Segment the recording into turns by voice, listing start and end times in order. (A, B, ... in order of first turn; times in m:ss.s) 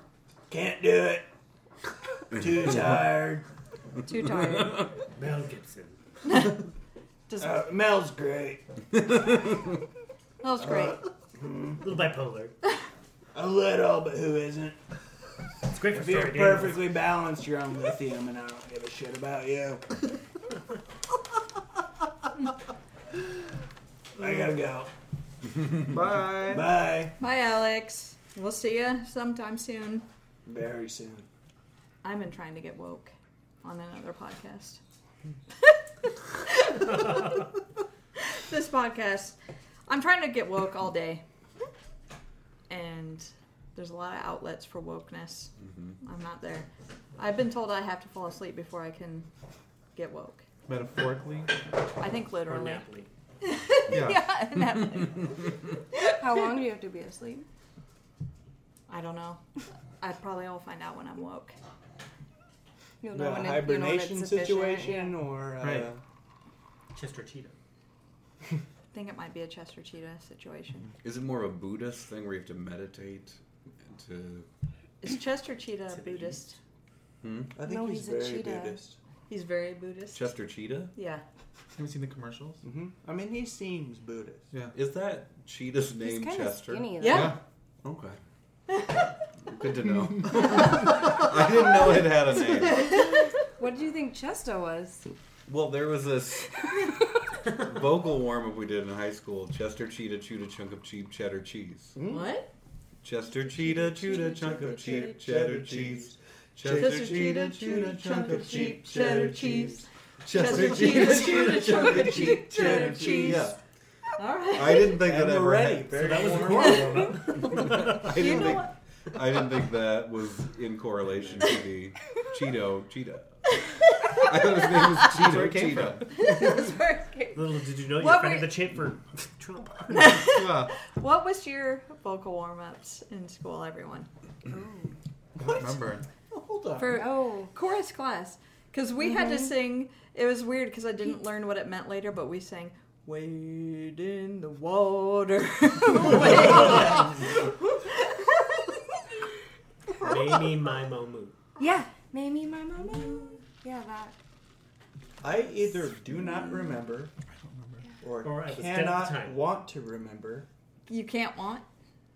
0:00.5-0:01.3 A
0:02.4-0:03.5 A
0:04.1-0:04.9 B
0:05.2-0:06.0 C
0:06.2-0:06.6 B
0:07.3-0:07.6 B
0:07.4-0:08.6 A
0:10.4-0:11.0 B
0:10.6-0:11.8 A
0:11.8-0:12.6 C
0:13.4-0:14.8 A
0:15.6-0:16.9 C
0:15.9-0:19.9 A
0:24.2-0:24.9 A
0:25.9-0:26.7 D
0:26.3-0:27.2 A
0:27.2-0:30.1 B
0:30.5-0:31.3 A
0:32.0-0:33.1 B
0:33.6-0:34.8 B
0:35.6-0:37.4 B
0:38.2-0:39.4 B
0:39.9-0:41.2 B
0:42.7-0:49.3 B
0:50.0-0:50.5 B
0:50.7-0:51.5 D
0:52.0-0:52.8 B
0:52.4-0:53.1 C
0:53.4-0:55.5 B
0:53.9-0:54.3 D
0:56.1-0:57.5 E
0:58.9-0:59.4 B
1:00.0-1:01.6 B
1:03.0-1:05.1 E
1:03.1-1:06.0 A
1:05.6-1:05.9 D
1:06.9-1:07.6 C
1:08.9-1:10.9 B
1:11.0-1:14.5 F
1:15.0-1:16.6 B
1:15.9-1:16.5 C
1:17.2-1:17.5 F
1:17.5-1:19.0 A
1:17.6-1:18.8 E
1:19.3-1:20.3 B
1:20.1-1:20.9 F
1:20.9-1:21.2 B
1:21.8-1:22.6 D
1:22.6-1:24.5 A
1:24.5-1:24.8 D
1:24.7-1:28.2 F
1:26.0-1:27.3 E
1:27.0-1:27.4 B
1:29.4-1:33.0 F
1:32.7-1:33.1 B
1:33.0-1:35.1 E
1:35.5-1:36.9 F
1:37.5-1:42.0 F
1:42.0-1:42.3 A
1:42.0-1:42.5 B
1:43.0-1:49.3 F
1:43.5-1:45.1 E
1:44.0-1:53.6 A
1:46.8-1:53.5 B
1:50.2-1:53.6 F
1:54.2-1:55.0 B
1:54.5-1:56.1 F
1:54.9-1:57.4 A
1:55.9-1:58.1 C
1:57.4-2:03.4 F
1:58.1-1:58.7 B
2:03.6-2:05.1 B
2:04.1-2:06.7 F
2:05.0-2:06.1 D
2:06.1-2:08.6 B
2:07.3-2:10.2 C
2:09.9-2:14.1 B
2:10.2-2:10.8 D
2:14.5-2:15.0 E
2:15.4-2:15.7 A
2:15.4-2:16.1 D
2:16.3-2:17.0 A
2:16.8-2:28.8 B
2:16.9-2:17.5 E
2:19.1-2:19.5 E
2:26.3-2:27.0 A
2:30.0-2:31.4 C
2:31.6-2:34.2 E
2:33.0-2:33.2 B
2:35.2-2:37.1 A
2:37.4-2:37.8 D
2:38.0-2:40.5 A
2:38.2-2:39.5 C
2:40.9-2:41.6 B